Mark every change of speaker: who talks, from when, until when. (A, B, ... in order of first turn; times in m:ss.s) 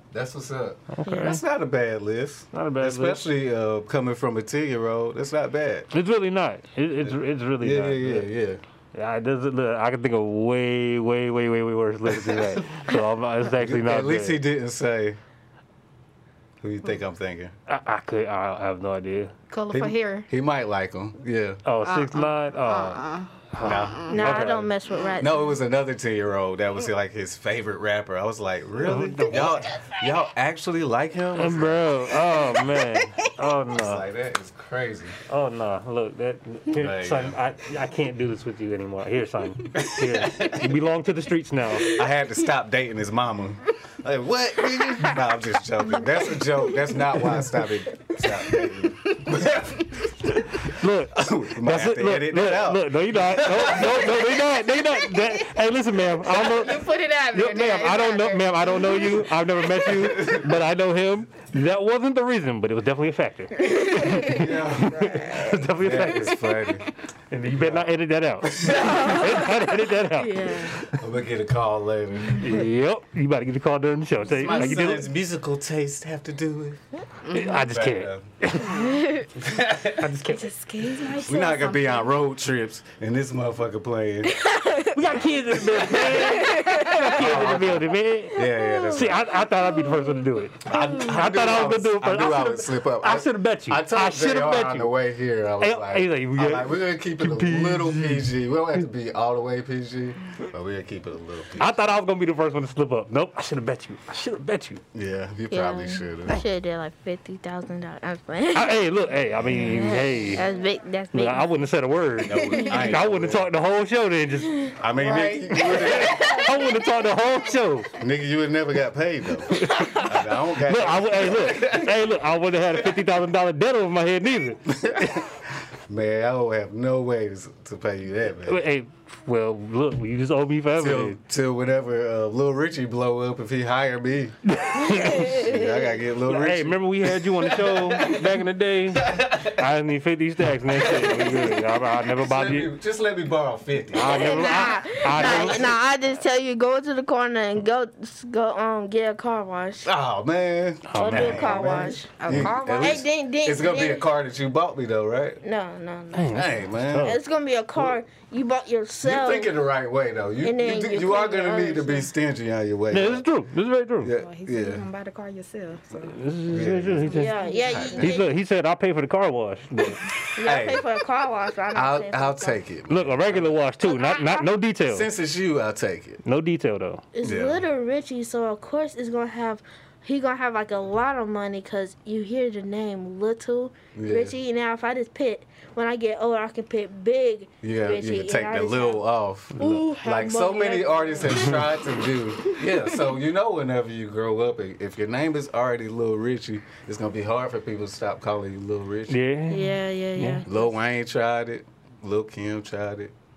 0:00.1-0:05.9 A
0:00.9-0:01.4 B
0:01.1-0:01.4 C
0:02.5-0:03.3 B
0:05.9-0:08.3 B
0:07.0-0:08.6 A
0:08.9-0:14.4 B
0:12.2-0:12.6 A
0:13.5-0:15.2 A
0:16.6-0:17.5 A
0:17.7-0:19.3 B
0:19.5-0:20.3 D
0:19.7-0:21.6 A
0:21.6-0:24.7 B
0:21.8-0:24.4 D
0:23.6-0:24.5 A
0:24.1-0:25.6 C
0:25.2-0:32.1 A
0:28.8-0:29.5 B
0:31.4-0:34.0 B
0:32.3-0:33.3 D
0:33.7-0:35.2 A
0:35.3-0:42.0 B
0:36.7-0:37.4 A
0:39.8-0:40.7 A
0:41.8-0:50.0 A
0:44.8-0:45.1 D
0:48.2-0:48.6 D
0:49.1-0:50.1 D
0:50.6-1:06.4 B
0:51.1-0:54.2 A
0:53.8-0:55.5 D
0:56.2-1:00.3 D
0:59.9-1:00.5 A
1:03.6-1:06.5 D
1:04.2-1:05.0 A
1:05.8-1:06.9 A
1:07.3-1:11.0 B
1:07.6-1:07.9 A
1:08.4-1:09.3 A
1:08.6-1:10.8 C
1:10.9-1:12.6 A
1:12.4-1:15.1 B
1:14.2-1:16.8 A
1:17.2-1:17.7 D
1:17.3-1:19.0 B
1:17.5-1:18.2 A
1:18.6-1:19.3 C
1:19.4-1:20.1 A
1:20.0-1:20.5 B
1:20.3-1:22.0 D
1:20.8-1:21.8 C
1:21.2-1:24.6 A
1:24.3-1:25.0 C
1:24.9-1:34.9 B
1:26.4-1:27.0 C
1:27.1-1:29.2 A
1:28.5-1:29.0 C
1:30.6-1:41.7 A
1:35.6-1:38.3 B
1:41.6-1:44.8 B
1:44.9-1:46.4 A
1:45.5-1:48.8 C
1:48.5-1:50.4 B
1:49.5-1:51.5 C
1:51.1-1:54.8 B
1:52.2-1:53.5 A
1:52.4-1:53.0 D
1:54.8-1:56.4 A
1:55.0-1:56.8 D
1:55.8-1:57.9 B
1:58.0-2:02.0 A
1:59.5-2:05.2 B
2:04.7-2:08.6 A
2:08.4-2:11.2 B
2:10.8-2:14.4 A
2:14.5-2:15.4 B
2:15.0-2:18.4 A
2:15.2-2:15.9 D
2:16.2-2:22.7 B
2:18.9-2:19.7 A
2:20.7-2:24.2 A
2:23.9-2:25.7 B
2:24.1-2:25.8 D
2:24.1-2:29.9 C
2:29.8-2:35.4 A
2:30.9-2:32.5 B
2:31.0-2:32.1 C
2:31.5-2:33.0 D
2:32.8-2:34.1 C
2:35.4-2:36.4 C
2:36.1-2:37.2 B
2:36.3-2:37.1 A
2:37.0-2:39.5 C
2:39.0-2:43.2 A
2:40.4-2:42.1 C
2:42.9-2:44.1 B
2:44.0-2:44.9 A
2:44.2-2:46.2 D
2:46.0-2:50.1 B
2:46.5-2:48.2 A
2:47.1-2:48.3 C
2:47.1-2:48.0 D
2:50.4-2:52.6 C
2:50.4-2:50.9 A
2:51.7-2:53.5 A
2:52.9-2:55.1 B
2:53.9-2:54.4 D
2:54.9-2:56.2 A
2:56.2-2:57.0 B
2:57.1-3:09.0 C
2:57.2-2:57.6 A
3:03.9-3:04.4 A
3:07.6-3:19.2 A
3:09.6-3:11.6 C
3:19.1-3:20.4 B
3:19.5-3:20.8 C
3:20.5-3:23.1 A